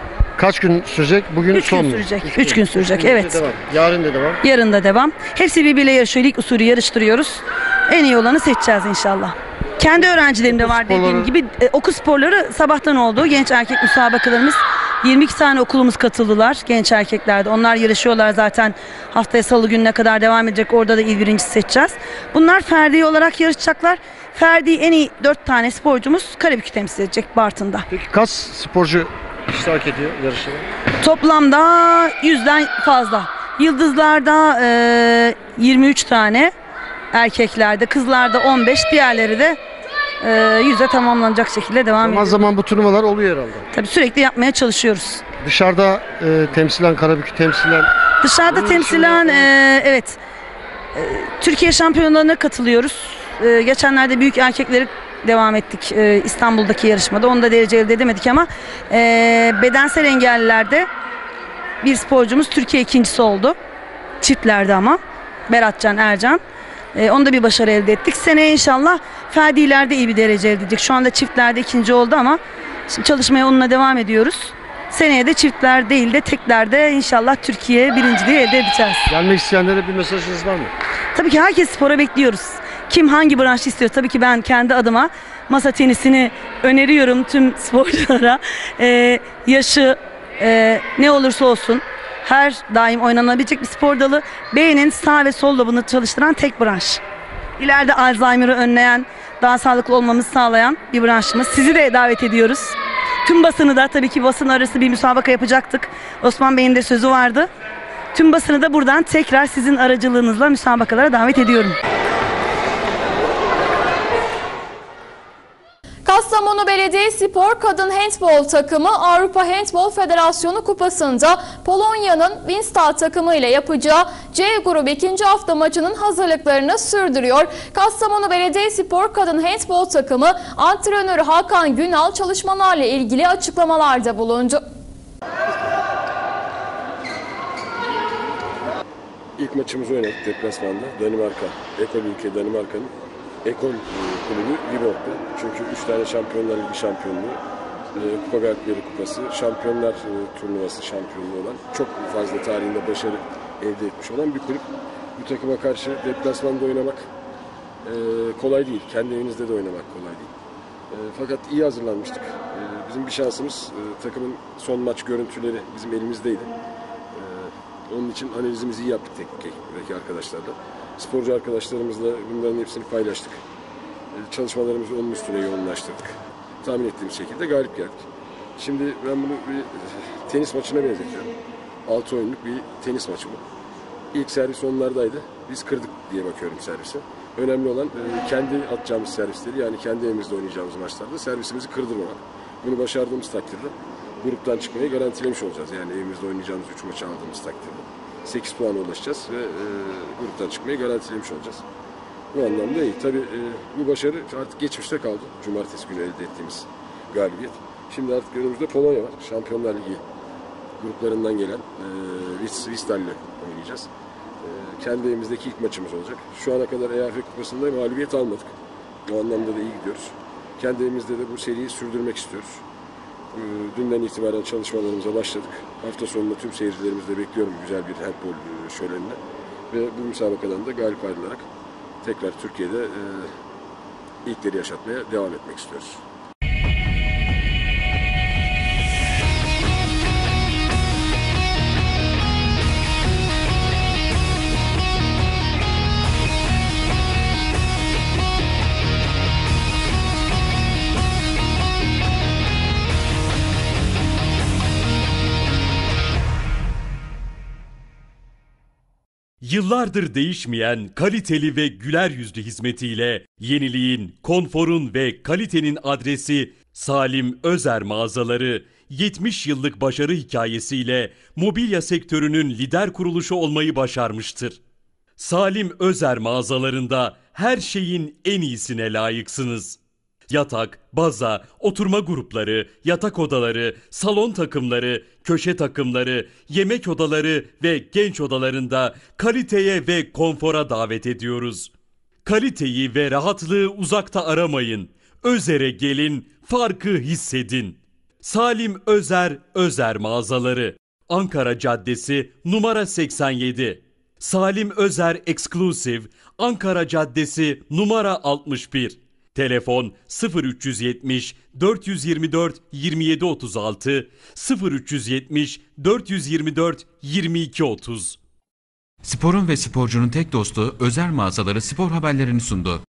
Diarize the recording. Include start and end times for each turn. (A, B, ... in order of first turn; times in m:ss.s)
0:00.4-0:04.4 A
0:01.5-0:03.4 B
0:04.4-0:27.8 B
0:10.4-0:11.3 A
0:27.9-0:30.6 A
0:31.0-0:36.5 B
0:37.1-0:39.6 B
0:40.2-0:42.4 B
0:42.0-0:43.7 A
0:43.7-0:45.2 B
0:45.4-0:47.9 A
0:48.2-0:50.2 B
0:48.4-0:49.5 A
0:50.9-1:00.9 B
1:01.8-1:03.6 B
1:04.2-1:06.4 B
1:06.9-1:19.0 B
1:19.1-1:20.7 A
1:21.1-1:37.0 B
1:37.6-1:47.5 B
1:48.1-1:51.8 B
1:56.0-2:14.6 C
2:19.4-2:22.9 D
2:23.4-2:27.4 D
2:27.9-2:34.6 D
2:35.2-2:37.1 D
2:37.8-2:40.3 D
2:40.9-2:46.5 D
2:47.1-2:53.4 D
2:54.1-2:58.0 D
2:58.6-3:01.3 D
3:01.8-3:03.4 D
3:04.1-3:21.6 D
3:22.3-3:30.0 D
3:30.8-3:33.9 D
3:34.4-3:38.5 D
3:39.0-3:42.6 D
3:43.3-3:49.2 D
3:49.7-3:51.5 D
3:52.0-3:53.3 D
3:54.2-3:56.0 D
4:19.4-4:34.6 E
4:35.2-4:39.8 E
4:40.3-4:51.7 E
4:52.2-5:18.2 E
5:19.0-5:22.8 F